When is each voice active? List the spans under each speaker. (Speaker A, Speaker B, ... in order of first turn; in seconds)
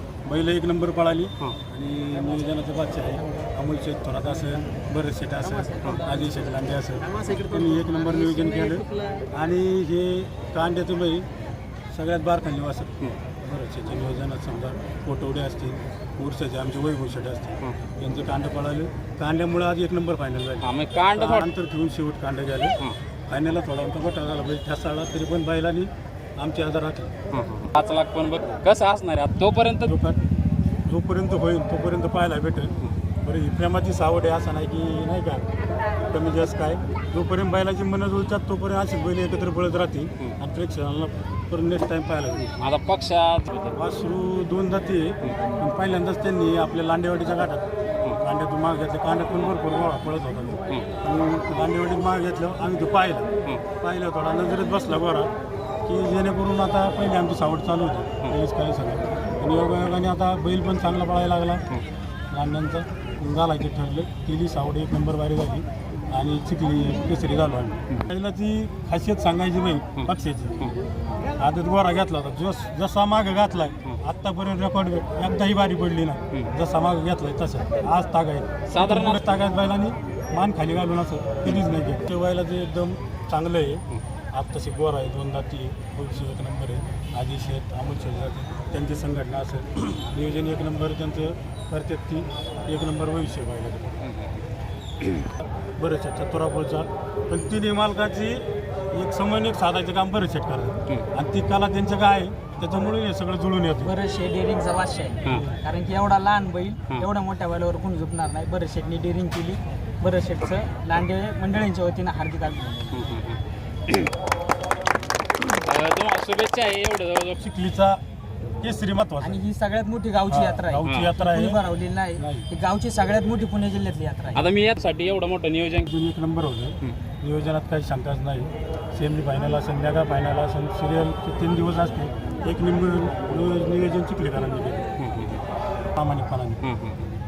Speaker A: 0.2-11.3, 11.9-27.1, 29.8-30.2, 30.8-35.5, 36.1-42.5, 43.7-55.3, 55.9-61.6, 62.3-70.7, 71.4-94.0, 95.2-103.9, 117.4-118.0, 118.6-119.4, 120.3-121.6, 122.2-122.5, 125.8-134.9, 135.9-136.7
Speaker B: 20.6-21.5, 27.3-29.9, 42.5-43.8, 78.7-79.2, 113.1-113.4, 115.4-117.4, 124.3-125.9
Speaker C: 103.8-113.1, 119.2-124.5